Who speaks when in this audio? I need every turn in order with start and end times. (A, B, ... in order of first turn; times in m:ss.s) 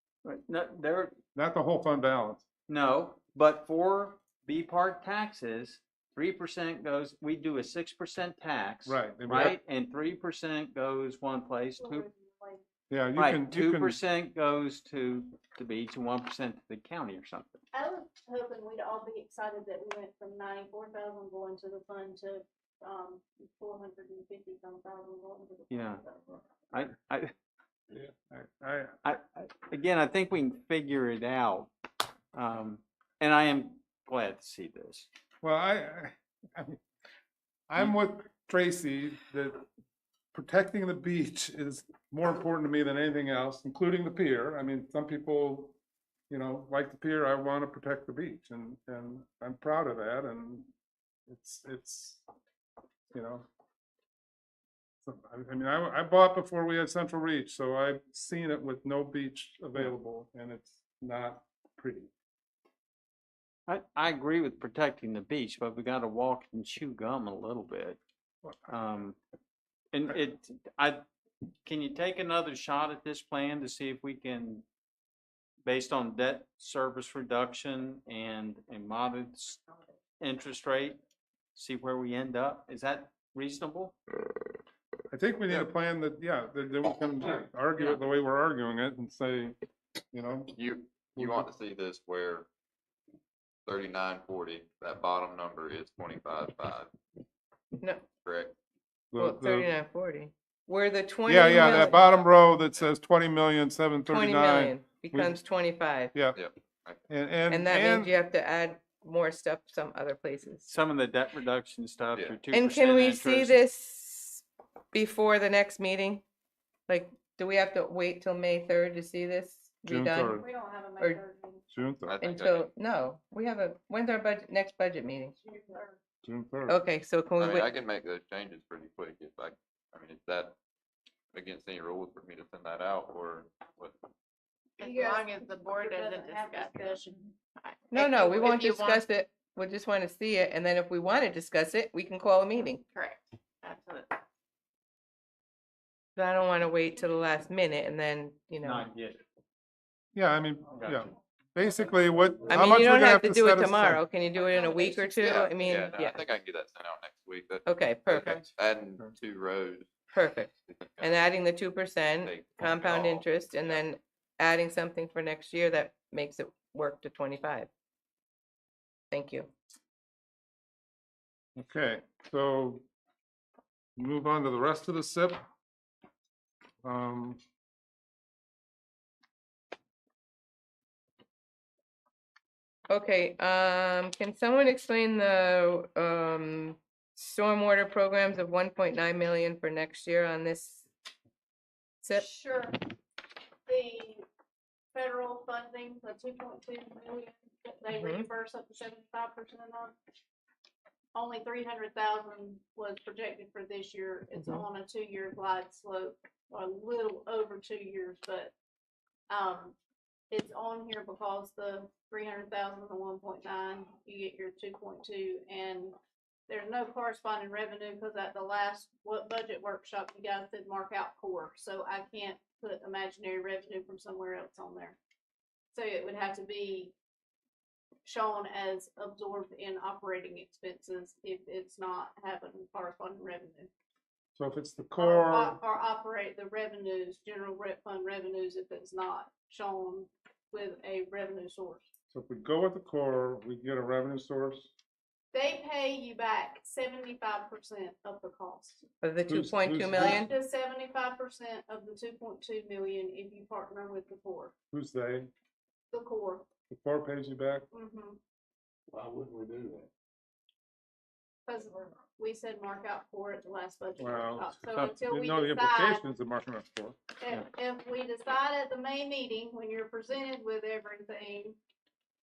0:00.2-0:01.1 A
0:01.3-0:02.4 B
0:02.7-0:12.0 A
0:08.8-0:09.6 B
0:11.8-0:12.6 C
0:12.9-0:14.0 B
0:13.2-0:17.6 A
0:17.7-0:26.4 C
0:25.7-0:26.0 A
0:26.7-0:27.3 A
0:27.9-0:29.0 B
0:29.0-0:31.7 A
0:32.3-0:35.1 A
0:35.4-0:36.8 B
0:37.7-0:39.6 B
0:40.3-0:45.8 B
0:46.3-0:50.7 B
0:51.3-0:52.2 B
0:53.1-0:53.4 B
0:55.0-1:02.1 B
1:03.7-1:08.0 A
1:08.7-1:09.2 A
1:09.9-1:11.0 A
1:11.6-1:14.6 A
1:15.6-1:19.6 A
1:20.2-1:21.0 A
1:21.5-1:23.9 A
1:25.1-1:29.6 B
1:30.1-1:30.5 B
1:30.6-1:32.5 D
1:31.1-1:31.5 B
1:33.6-1:36.9 D
1:37.8-1:38.1 E
1:38.2-1:38.5 D
1:39.1-1:39.7 B
1:39.2-1:42.2 E
1:41.2-1:45.4 B
1:44.1-1:46.2 E
1:46.1-1:46.4 B
1:46.3-1:47.0 D
1:47.1-1:48.1 B
1:47.5-1:50.7 E
1:50.6-1:53.6 A
1:52.1-1:52.4 D
1:52.5-1:56.2 E
1:56.9-2:00.4 E
1:59.9-2:00.4 B
2:00.3-2:01.6 C
2:01.7-2:02.2 B
2:02.1-2:02.6 D
2:02.2-2:05.4 E
2:05.4-2:06.0 C
2:06.2-2:06.8 B
2:06.7-2:07.7 E
2:07.4-2:10.6 D
2:11.3-2:14.0 D
2:14.8-2:19.0 F
2:14.8-2:17.2 C
2:17.9-2:22.8 E
2:22.9-2:24.2 F
2:26.2-2:28.9 E
2:28.6-2:29.2 A
2:30.1-2:34.0 B
2:30.7-2:31.0 A
2:32.5-2:36.2 E
2:34.3-2:35.1 F
2:35.2-2:39.9 D
2:37.6-2:38.4 E
2:40.1-2:47.7 E
2:40.6-2:41.3 D
2:42.2-2:43.8 D
2:49.1-2:49.5 E
2:51.6-2:52.8 B
2:54.0-2:55.4 B
2:56.8-2:57.4 B
3:02.9-3:10.9 E
3:12.1-3:12.8 C
3:13.7-3:14.2 C
3:14.9-3:20.0 C
3:17.9-3:18.2 E
3:21.1-3:28.5 C
3:29.3-3:29.8 C
3:30.3-3:35.9 C
3:36.5-3:45.0 C
3:45.7-3:46.9 C
3:48.0-3:53.7 C
3:54.4-3:55.6 B
3:55.0-4:01.8 C
4:02.1-4:04.7 B
4:05.3-4:08.8 C
4:09.0-4:10.3 E
4:09.3-4:10.3 B
4:09.9-4:14.5 C
4:14.7-4:15.3 B
4:15.9-4:16.5 C
4:16.7-4:17.7 B
4:17.7-4:18.2 C
4:18.9-4:19.8 B
4:21.5-4:26.0 C
4:24.0-4:27.0 B
4:27.2-4:31.6 C